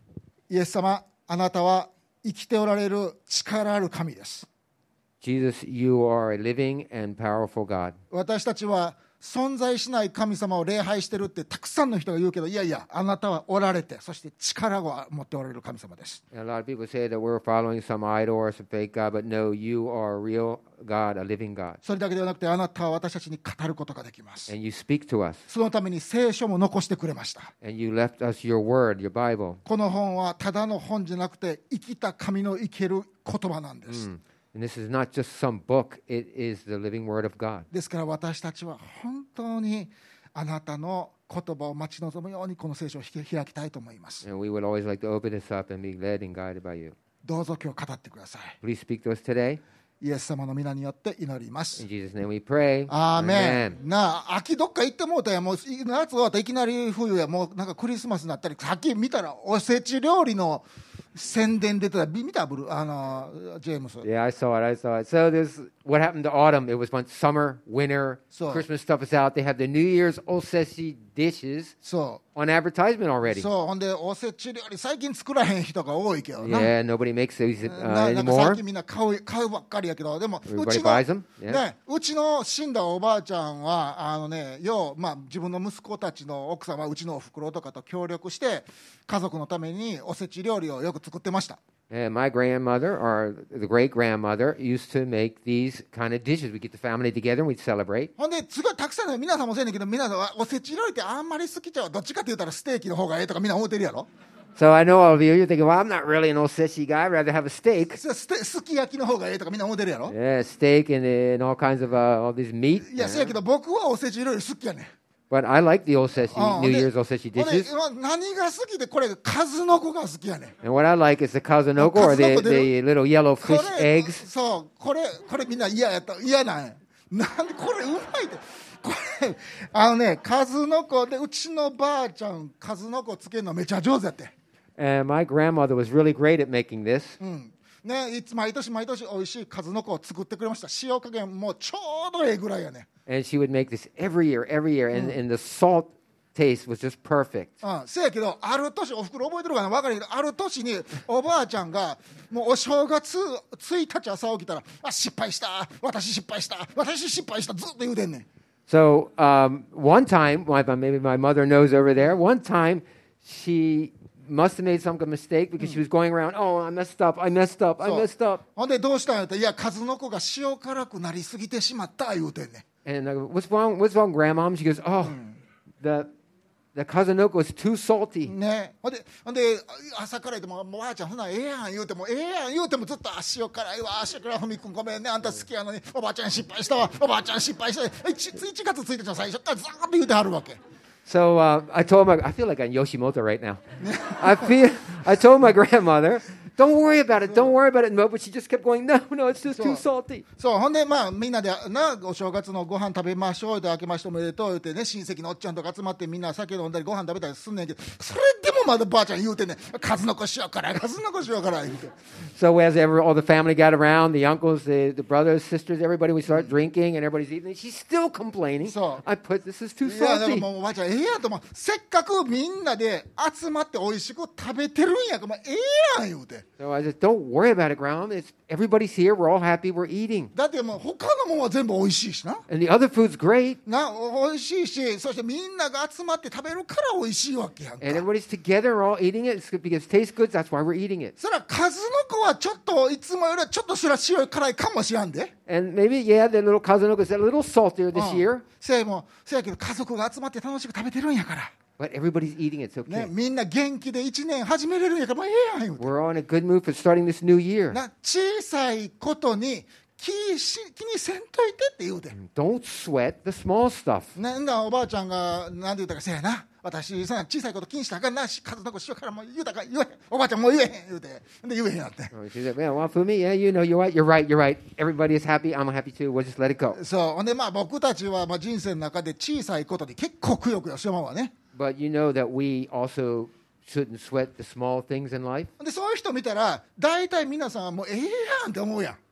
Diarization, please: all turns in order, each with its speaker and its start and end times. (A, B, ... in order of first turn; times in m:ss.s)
0:00.5-0:04.5 A
0:05.2-0:08.0 B
0:08.1-0:16.2 A
0:16.3-0:21.8 B
0:21.8-0:24.5 A
0:24.5-0:25.4 B
0:25.5-0:27.5 A
0:27.6-0:29.6 B
0:29.6-0:34.0 A
0:33.9-0:37.7 B
0:37.7-0:44.2 A
0:44.2-0:47.0 B
0:47.2-0:48.6 A
0:48.6-0:49.6 B
0:50.0-0:51.8 A
0:51.8-0:53.8 B
0:52.9-1:04.0 A
1:04.0-1:11.7 B
1:08.3-1:08.6 A
1:11.8-1:12.2 A
1:12.3-1:13.4 B
1:13.3-1:16.7 A
1:16.4-1:18.6 B
1:17.6-1:31.6 A
1:20.5-1:21.6 B
1:31.9-1:38.1 B
1:38.2-1:44.1 A
1:44.6-1:48.0 B
1:47.9-1:50.1 A
1:50.1-1:53.4 B
1:52.8-1:54.9 A
1:55.3-1:57.7 B
1:56.3-2:00.5 A
2:00.6-2:04.2 B
2:01.8-2:02.7 A
2:03.4-2:14.3 A
2:14.8-2:17.2 B
2:17.2-2:22.9 A
2:23.1-2:27.5 B
2:27.6-2:38.2 A
2:38.7-2:48.4 B
2:47.8-2:52.6 A
2:52.8-2:55.2 B
2:55.0-2:55.4 A
2:55.8-2:56.1 B
2:56.7-2:58.3 B
2:58.2-3:10.6 A
3:11.0-3:20.2 B
3:13.8-3:14.5 A
3:17.2-3:17.5 A
3:19.5-3:19.8 A
3:20.4-3:31.9 A
3:32.2-3:40.5 B
3:38.6-3:39.0 A
3:39.8-3:46.4 A
3:46.6-3:50.3 B
3:50.3-3:52.4 A
3:52.5-3:53.6 B
3:53.6-3:58.0 A
3:57.8-4:01.1 B
4:01.2-4:05.3 A
4:05.5-4:08.4 B
4:07.9-4:11.5 A
4:11.8-4:13.1 B
4:12.9-4:15.9 A
4:15.8-4:17.8 B
4:17.7-4:22.1 A
4:22.1-4:24.1 B
4:24.1-4:32.1 A
4:32.1-4:36.8 B
4:36.7-4:41.3 A
4:41.5-4:45.5 B
4:45.6-4:49.0 A